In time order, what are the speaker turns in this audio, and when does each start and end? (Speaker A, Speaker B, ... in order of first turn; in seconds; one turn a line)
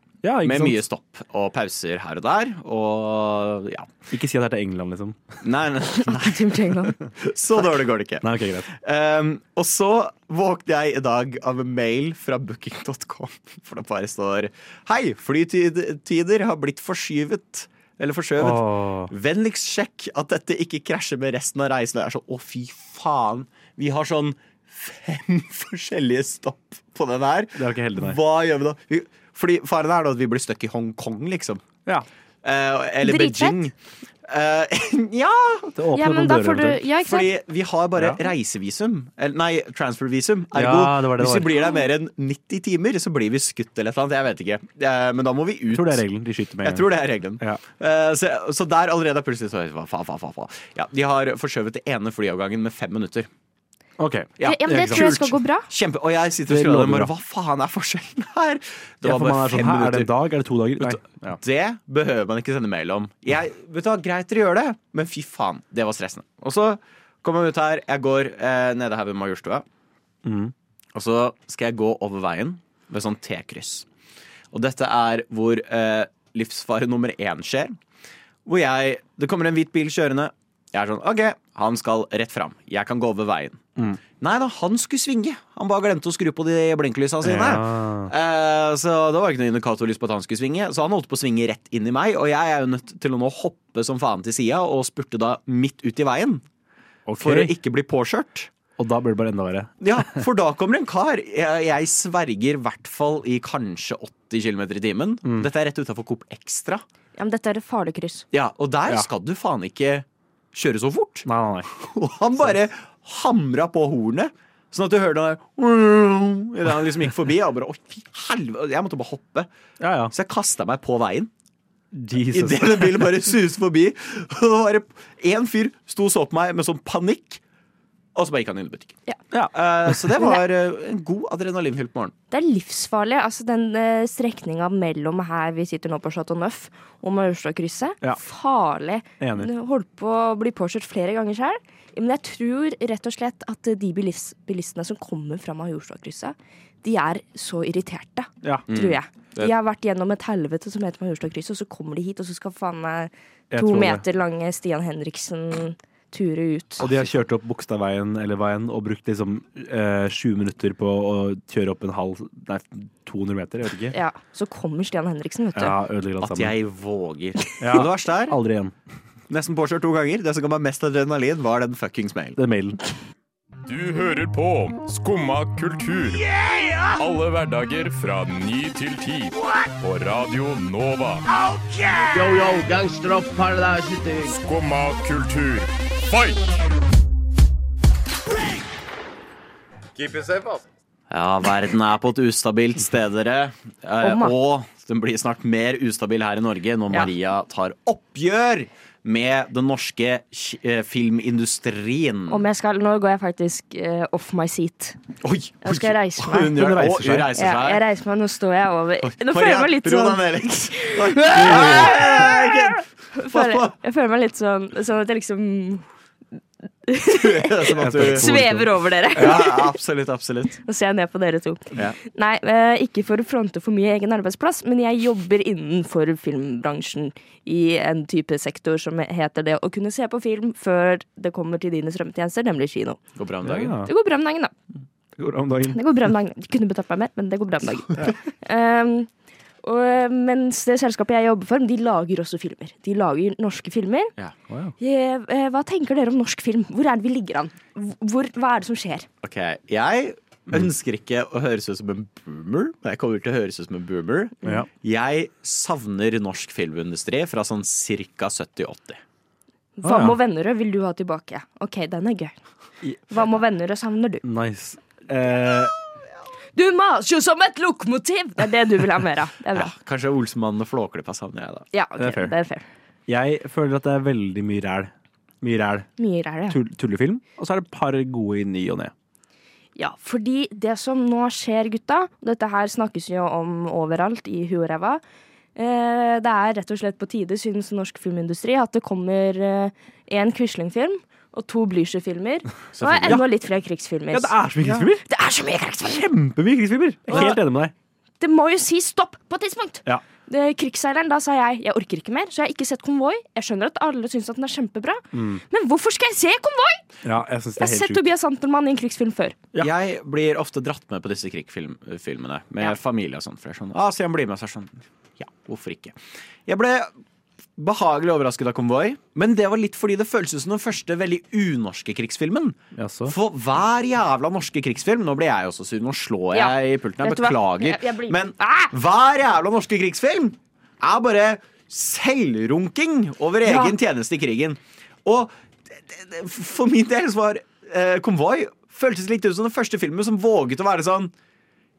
Speaker A: 0.2-0.8
Speaker B: 0.4-3.9
Speaker A: 4.1-5.3
Speaker B: 5.4-31.6
Speaker C: 6.0-6.9
Speaker A: 8.2-8.7
Speaker A: 18.4-19.1
Speaker A: 27.5-28.2
Speaker B: 32.4-33.7
Speaker C: 33.0-33.7
Speaker B: 34.2-35.7
Speaker A: 35.8-36.8
Speaker C: 35.9-37.3
Speaker B: 37.0-46.0
Speaker A: 40.5-41.6
Speaker A: 45.7-46.9
Speaker B: 46.6-53.3
Speaker A: 54.0-55.2
Speaker B: 54.4-60.1
Speaker C: 54.4-55.7
Speaker A: 56.5-57.1
Speaker A: 59.0-61.4
Speaker B: 60.8-69.6
Speaker A: 70.2-70.5
Speaker B: 70.9-73.8
Speaker B: 74.5-77.8
Speaker B: 78.5-83.6
Speaker B: 84.2-96.4
Speaker A: 87.2-88.1
Speaker A: 97.0-97.5
Speaker B: 97.2-98.5
Speaker A: 98.8-100.2
Speaker B: 99.8-106.8
Speaker A: 105.2-105.5
Speaker C: 107.2-108.2
Speaker B: 108.3-111.3
Speaker A: 111.2-111.7
Speaker B: 111.8-119.5
Speaker A: 119.8-120.1
Speaker B: 120.1-121.3
Speaker A: 121.9-123.1
Speaker B: 122.3-127.4
Speaker B: 128.1-129.0
Speaker A: 129.3-130.1
Speaker B: 129.5-132.1
Speaker C: 132.3-156.8
Speaker A: 139.2-139.5
Speaker A: 148.4-148.7
Speaker B: 148.7-149.5
Speaker A: 153.5-154.0
Speaker B: 156.8-157.1
Speaker A: 156.8-163.9
Speaker C: 163.9-165.8
Speaker A: 165.5-166.5
Speaker B: 166.2-168.3
Speaker A: 167.6-168.7
Speaker B: 169.3-172.4
Speaker A: 172.3-172.8
Speaker D: 173.7-176.3
Speaker D: 176.9-182.1
Speaker E: 182.1-184.4
Speaker D: 184.4-186.4
Speaker D: 189.9-190.6
Speaker B: 191.1-202.4
Speaker C: 194.0-194.3
Speaker C: 202.3-205.0
Speaker B: 205.2-207.8
Speaker C: 205.6-206.5
Speaker A: 206.4-207.3
Speaker C: 207.3-215.8
Speaker B: 209.0-213.7
Speaker A: 211.3-212.0
Speaker C: 216.8-219.7
Speaker B: 217.1-218.4
Speaker A: 217.8-218.8
Speaker B: 219.1-220.6
Speaker C: 220.7-233.0
Speaker B: 233.2-233.8
Speaker A: 233.4-233.9
Speaker C: 233.8-234.5
Speaker A: 235.2-235.8
Speaker C: 235.7-239.1
Speaker C: 239.6-244.1
Speaker A: 244.5-244.7
Speaker C: 244.8-249.1
Speaker B: 249.2-259.0
Speaker C: 259.8-262.3
Speaker A: 259.8-260.2
Speaker C: 263.1-264.2
Speaker A: 264.2-265.7
Speaker C: 266.5-269.7
Speaker B: 269.5-271.6
Speaker C: 271.7-272.7
Speaker A: 272.0-272.3
Speaker A: 273.1-275.9
Speaker C: 276.0-276.6
Speaker A: 276.5-278.9
Speaker C: 279.8-285.0
Speaker C: 285.5-294.4
Speaker B: 292.7-293.2
Speaker A: 294.1-295.0
Speaker B: 294.6-294.9
Speaker C: 295.1-296.1
Speaker A: 296.1-297.7
Speaker C: 298.2-306.8
Speaker A: 305.1-305.4
Speaker A: 307.0-308.0
Speaker C: 307.6-309.4
Speaker B: 309.6-316.9
Speaker B: 317.6-341.1
Speaker A: 322.7-323.1
Speaker C: 326.3-328.7
Speaker C: 333.4-333.7